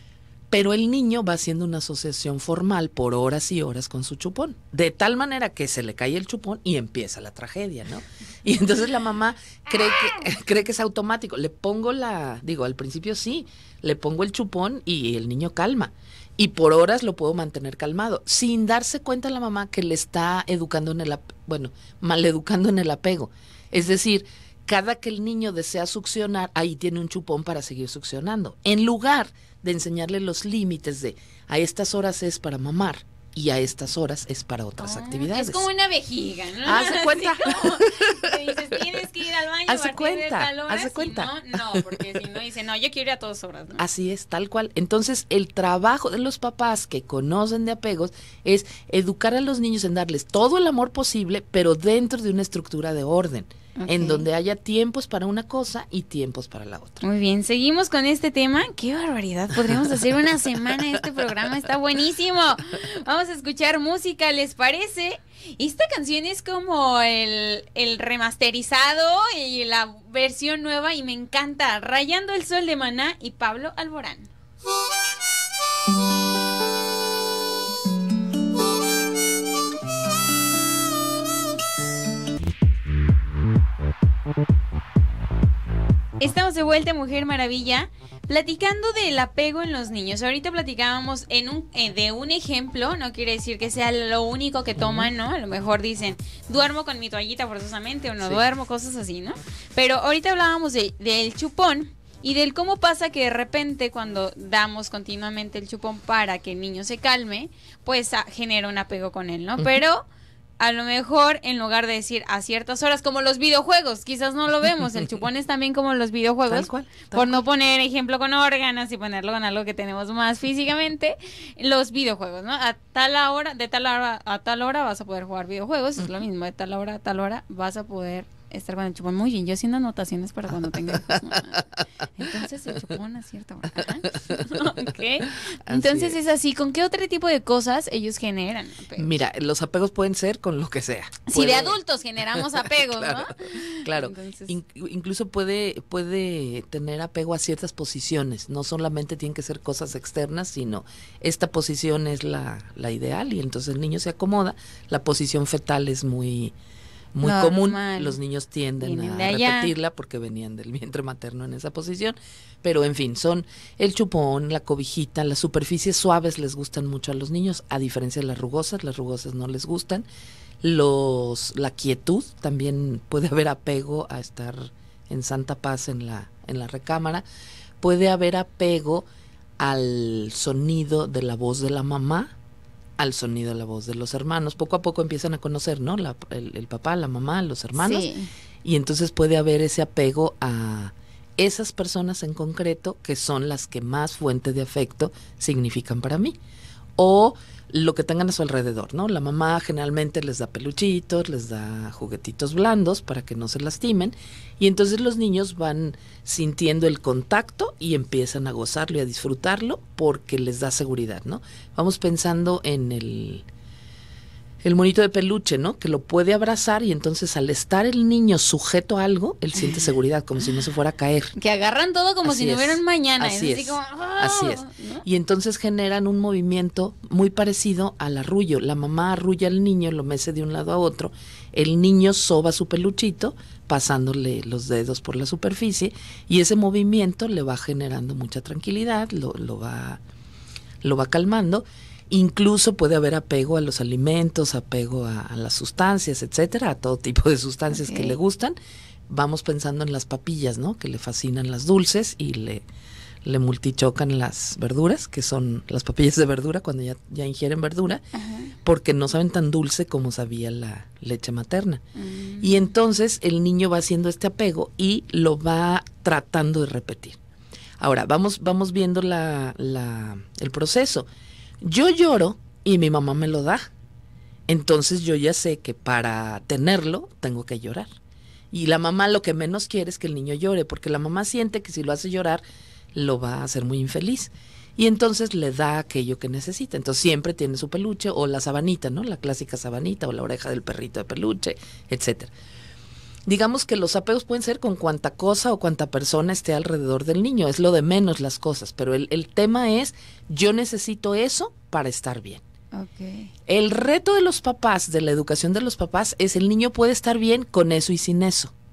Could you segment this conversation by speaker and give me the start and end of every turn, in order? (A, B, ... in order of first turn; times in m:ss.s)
0:00.5-0:35.6 A
0:34.8-0:43.8 B
0:36.6-0:39.0 A
0:39.7-0:42.2 A
0:43.8-0:57.0 A
0:53.8-0:54.2 B
0:57.0-1:14.3 B
1:26.2-1:50.0 B
1:34.8-1:35.1 A
1:50.6-2:11.6 B
1:56.5-1:57.4 A
2:10.6-2:11.6 A
2:12.2-2:19.1 B
2:13.8-2:14.7 A
2:15.6-2:16.2 A
2:19.0-2:21.8 A
2:21.3-2:24.5 B
2:22.3-2:36.5 A
2:37.1-2:50.0 A
2:37.2-2:38.2 B
2:38.8-2:39.7 B
2:50.6-2:57.2 A
2:57.8-2:59.1 A
2:59.6-3:02.3 A
3:03.0-3:08.1 A
3:07.8-3:08.3 B
3:08.6-3:16.3 A
3:17.0-3:33.4 A
3:34.6-3:41.3 A
3:41.4-3:45.0 B
3:42.2-4:00.0 A
4:00.8-4:08.6 A
4:07.7-4:08.2 B
4:09.1-4:12.6 A
4:13.2-4:18.0 A
4:18.1-4:18.5 B
4:18.6-4:21.8 A
4:22.0-4:22.7 B
4:22.4-4:27.2 A
4:27.8-4:31.1 A
4:31.6-4:33.6 A
4:34.5-4:37.9 A
4:38.5-4:42.4 A
4:42.9-4:52.3 A
4:53.3-5:02.4 A
5:02.7-5:03.3 B
5:03.5-5:08.5 A